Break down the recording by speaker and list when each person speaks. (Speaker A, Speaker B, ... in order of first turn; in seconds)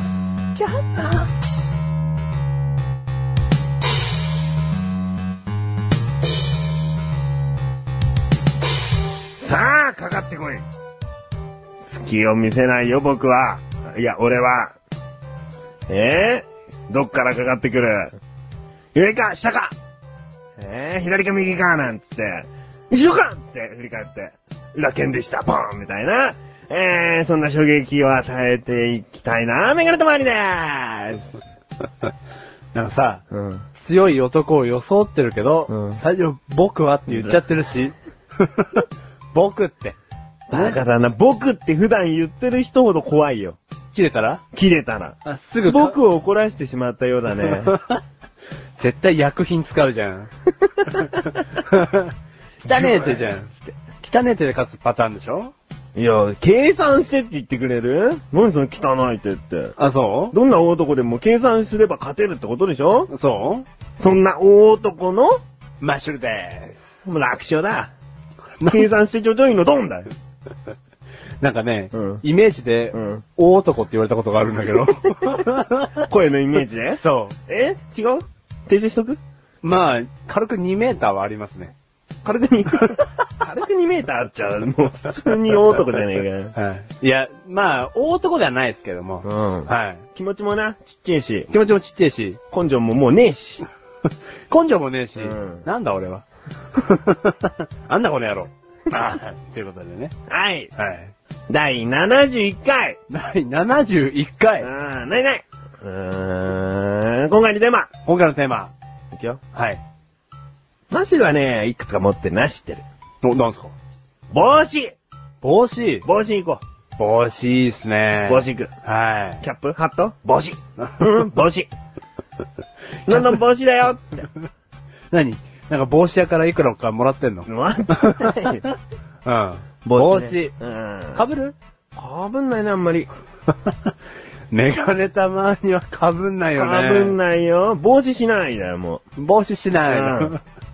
Speaker A: 0.6-1.2, 32.7-33.2, 33.7-40.0, 40.5-40.8, 43.9-44.4, 45.2-46.0, 47.4-48.0, 48.8-50.3, 50.8-55.5, 59.8-60.4, 63.1-63.6, 65.8-66.9, 68.6-68.8, 71.4-76.0, 77.0-77.3, 79.6-81.7, 86.5-90.0, 91.5-92.4, 94.5-100.1, 100.8-101.1, 103.1-104.7, 108.0-108.7, 109.5-109.8, 113.2-113.7, 115.4-116.0, 117.0-119.4, 125.1-128.7, 129.2-130.5, 131.1-131.5, 134.5-137.2, 139.2-140.4
Speaker B: 9.4-10.6, 11.8-14.7, 15.9-18.1, 18.9-19.7, 20.6-31.3, 33.3-33.6, 35.7-36.0, 37.1-37.4, 40.5-43.6, 44.5-47.8, 52.6-53.3, 56.0-59.7, 60.3-63.1, 64.0-65.3, 67.0-67.9, 68.6-70.1, 71.9-72.2, 72.9-73.2, 76.1-79.2, 82.2-86.5, 89.2-91.5, 92.5-93.6, 95.2-95.6, 100.3-100.7, 101.5-103.0, 104.6-107.9, 109.1-109.4, 110.9-112.8, 114.3-114.9, 116.0-116.6, 118.3-118.7, 119.4-121.7, 123.1-124.3, 127.5-128.6, 129.8-131.2, 131.9-133.1, 136.6-139.0, 139.8-140.3